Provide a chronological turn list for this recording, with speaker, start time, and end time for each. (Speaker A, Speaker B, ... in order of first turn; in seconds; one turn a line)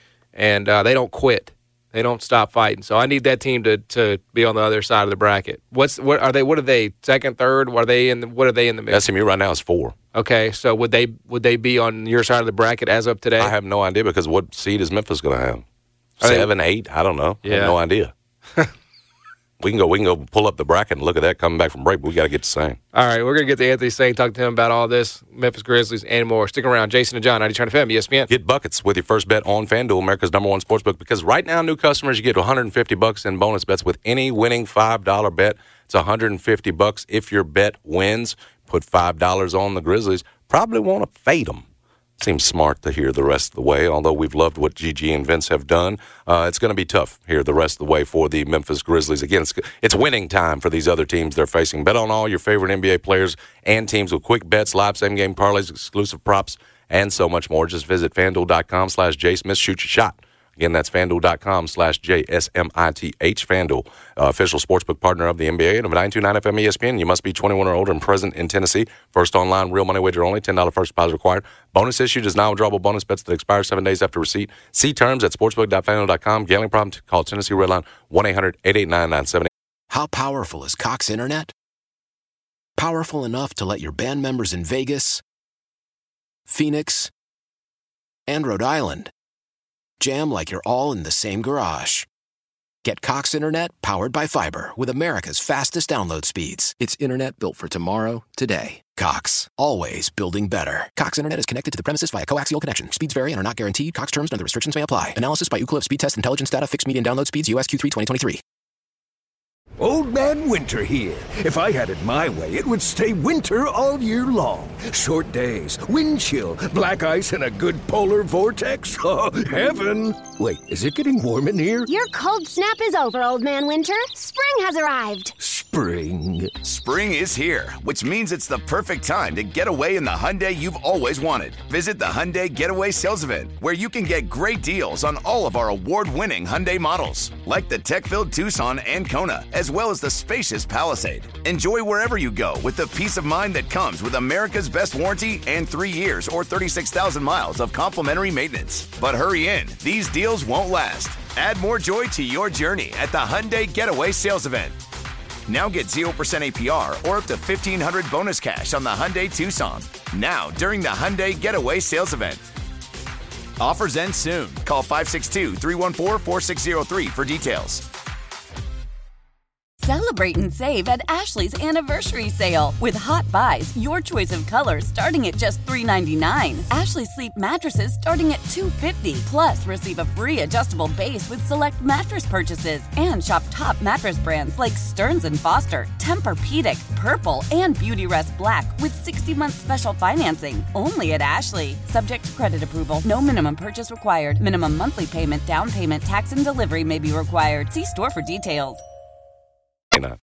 Speaker A: 0.3-9.0
Speaker B: 8.9-9.9
Speaker A: 10.2-13.5
Speaker B: 13.4-15.6
Speaker B: 16.2-18.1
Speaker A: 16.2-16.5
Speaker A: 17.4-17.8
Speaker B: 19.6-22.8
Speaker A: 22.9-28.3
Speaker B: 28.3-41.6
Speaker B: 42.2-79.5
Speaker C: 79.9-81.5
Speaker C: 82.8-85.2
Speaker C: 86.5-87.1
Speaker C: 88.3-89.1
Speaker C: 90.0-92.1
Speaker C: 92.8-108.4
Speaker D: 109.8-121.9
Speaker E: 121.9-125.3
Speaker D: 125.4-126.6
Speaker F: 126.6-154.8
Speaker F: 155.5-162.4
Speaker F: 163.6-167.9
Speaker G: 169.8-198.8